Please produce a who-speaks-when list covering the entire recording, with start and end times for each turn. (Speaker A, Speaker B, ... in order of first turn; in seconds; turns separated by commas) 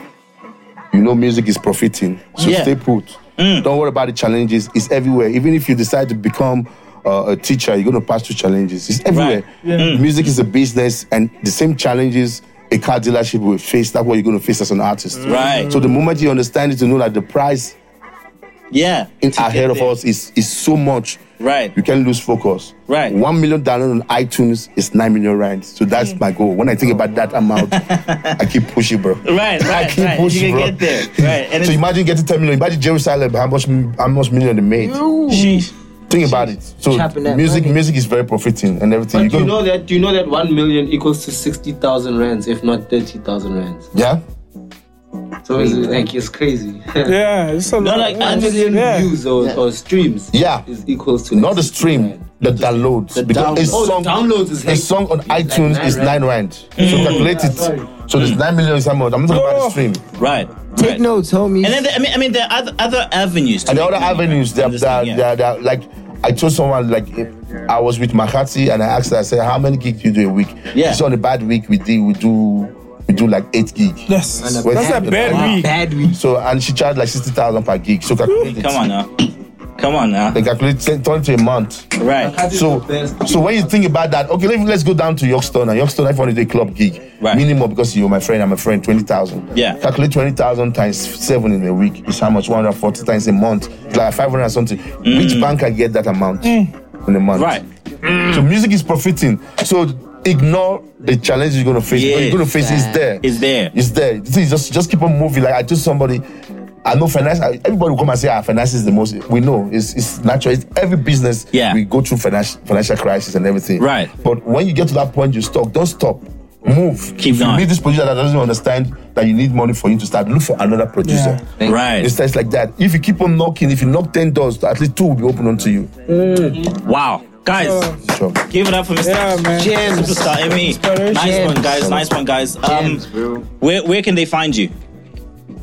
Speaker A: 0.9-17.8, Speaker B: 2.4-2.7, Speaker B: 3.4-3.7, Speaker B: 9.1-10.1, Speaker B: 15.2-15.8, Speaker B: 18.7-19.9, Speaker A: 19.2-21.2, Speaker B: 21.4-21.7, Speaker A: 21.7-27.8, Speaker B: 22.9-23.1, Speaker B: 27.6-28.3, Speaker A: 28.4-35.4, Speaker B: 29.2-31.8, Speaker C: 34.8-35.5, Speaker B: 35.3-35.7, Speaker A: 36.1-39.6, Speaker C: 36.2-37.8, Speaker D: 39.1-43.9, Speaker A: 43.9-44.2, Speaker D: 45.4-47.1, Speaker E: 47.0-49.2, Speaker B: 47.8-48.7, Speaker D: 48.1-56.2, Speaker A: 50.3-50.6, Speaker A: 51.3-60.0, Speaker B: 53.3-53.8, Speaker B: 56.8-57.4, Speaker D: 56.8-57.9, Speaker B: 58.1-58.4, Speaker E: 59.3-59.9, Speaker B: 60.2-61.0, Speaker C: 60.7-61.9, Speaker B: 61.6-65.2, Speaker A: 63.6-74.1, Speaker B: 70.7-71.0, Speaker E: 74.1-75.7, Speaker C: 74.4-76.2, Speaker A: 74.6-78.9, Speaker B: 78.4-79.1, Speaker B: 79.8-80.4, Speaker A: 80.3-81.9, Speaker B: 82.0-82.4, Speaker D: 82.2-83.8, Speaker A: 82.4-97.6, Speaker B: 89.5-89.8, Speaker B: 95.0-95.5, Speaker E: 96.4-96.7, Speaker B: 97.3-97.6, Speaker A: 98.2-106.2, Speaker B: 101.9-102.5, Speaker C: 102.5-103.0, Speaker B: 103.2-103.7, Speaker A: 106.8-125.9, Speaker B: 111.5-111.8, Speaker B: 113.8-114.1, Speaker B: 117.2-117.7, Speaker E: 121.0-121.4, Speaker B: 121.6-122.1, Speaker C: 126.1-126.6, Speaker B: 126.8-127.9, Speaker E: 127.5-128.0, Speaker A: 128.0-128.4, Speaker B: 128.4-133.0, Speaker E: 129.0-131.8, Speaker C: 129.5-130.4, Speaker C: 131.1-131.8, Speaker A: 131.7-132.1, Speaker C: 132.6-133.4, Speaker B: 133.6-134.7